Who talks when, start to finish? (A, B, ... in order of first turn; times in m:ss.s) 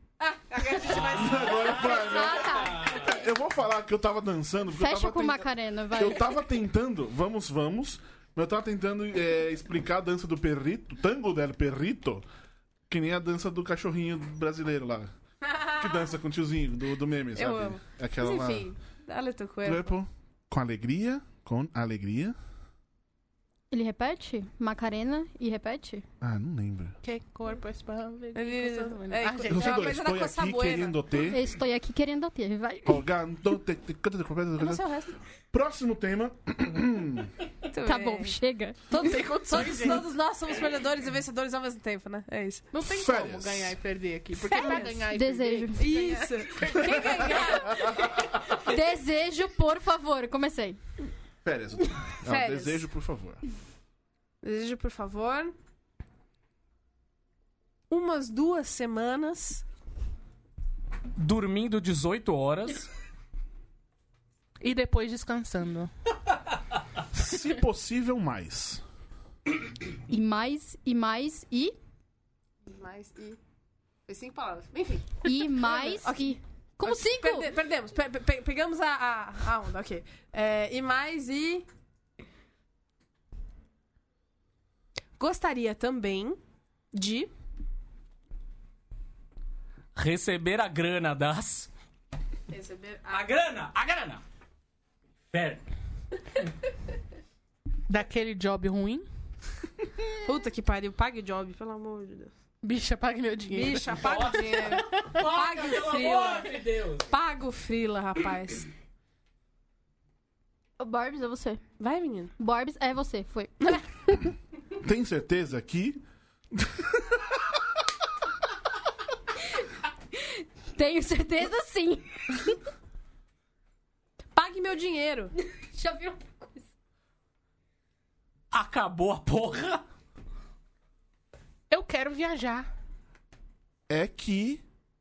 0:00.2-0:02.5 A
0:01.0-0:12.3 B
0:01.2-0:01.7 C
0:01.8-0:02.9 D
0:02.5-0:03.1 C
0:04.7-0:06.5 D
0:12.9-0:15.1 B
0:15.4-0:16.1 A
0:15.8-0:18.7 B
0:17.4-0:20.0 A
0:19.6-0:22.4 B
0:23.7-0:26.0 D
0:26.2-0:27.0 B
0:27.0-0:29.9 E
0:28.4-0:31.1 A
0:29.4-0:31.4 B
0:31.3-0:33.0 D
0:32.9-0:34.8 B
0:34.6-0:35.2 A
0:35.5-0:37.3 B
0:37.7-0:38.4 A
0:37.8-0:38.8 D
0:38.9-0:42.6 A
0:38.9-0:40.1 E
0:42.7-0:47.4 E
0:42.8-0:43.8 B
0:44.4-0:45.0 A
0:44.6-0:45.9 D
0:45.8-0:48.2 A
0:46.8-0:48.0 B
0:48.4-0:50.8 D
0:51.4-0:53.4 B
0:52.2-0:52.9 A
0:54.4-0:55.6 A
0:57.9-0:59.6 A
1:01.2-1:02.9 C
1:04.6-1:05.9 E
1:07.1-1:08.8 B
1:10.1-1:11.8 D
1:12.7-1:13.4 A
1:14.1-1:21.7 A
1:15.2-1:17.5 D
1:25.2-1:26.4 A
1:26.9-1:27.3 A
1:30.0-1:31.7 C
1:32.5-1:33.2 A
1:33.1-1:34.2 C
1:35.3-1:35.6 C
1:37.9-1:39.1 E
1:40.2-1:42.3 A
1:42.6-1:43.9 E
1:43.5-1:46.5 A
1:44.0-1:47.1 C
1:44.7-1:45.2 E
1:47.1-1:48.7 A
1:50.8-1:51.6 D
1:51.8-1:52.3 A
1:52.4-1:54.0 D
1:54.8-1:56.0 B
1:56.5-1:57.5 B
2:00.2-2:02.6 D
2:04.4-2:05.3 A
2:05.6-2:06.6 D
2:08.5-2:09.8 C
2:11.7-2:12.7 E
2:13.9-2:14.6 B